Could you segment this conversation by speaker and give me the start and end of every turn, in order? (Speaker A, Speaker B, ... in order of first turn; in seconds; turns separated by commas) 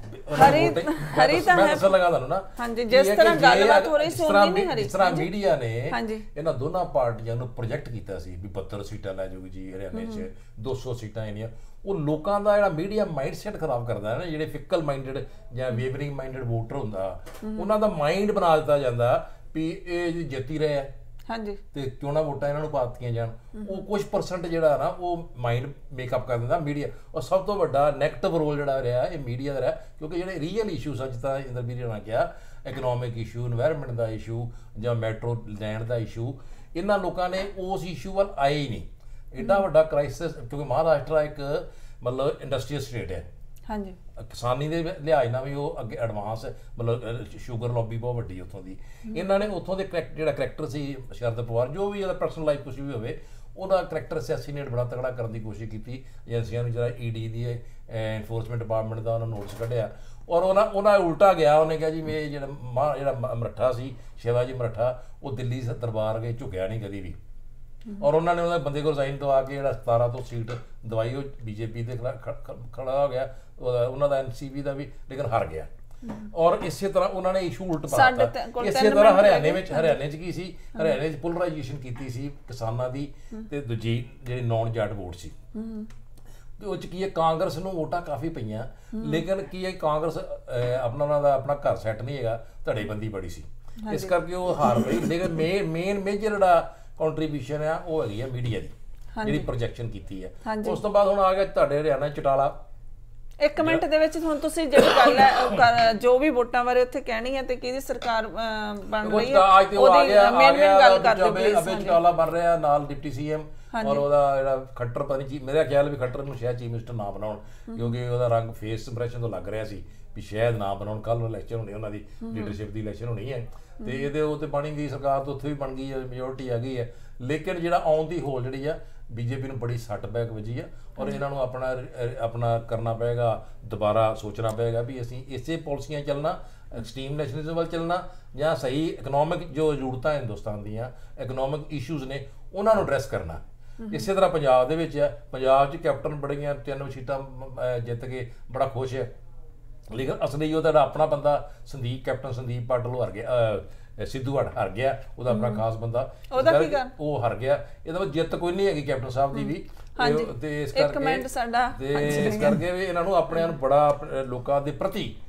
Speaker A: 0.1-20.9, Speaker B: 0.3-1.9, Speaker B: 2.5-5.3, Speaker B: 5.9-6.2, Speaker B: 9.9-10.2, Speaker B: 17.4-17.7, Speaker B: 21.3-21.6, Speaker A: 21.7-43.2, Speaker B: 23.6-23.8, Speaker B: 43.7-44.0, Speaker A: 44.2-67.2, Speaker A: 68.0-75.7, Speaker A: 76.3-85.3, Speaker B: 77.9-80.0, Speaker B: 85.5-85.9, Speaker A: 86.6-98.7, Speaker B: 88.9-89.2, Speaker B: 93.8-94.1, Speaker B: 99.2-99.5, Speaker A: 99.2-102.5, Speaker B: 100.4-100.8, Speaker B: 103.4-112.0, Speaker A: 103.6-103.8, Speaker A: 109.0-149.1, Speaker B: 113.7-114.0, Speaker B: 122.2-122.5, Speaker A: 149.9-165.2, Speaker B: 155.3-155.6, Speaker B: 156.3-156.9, Speaker B: 159.3-162.6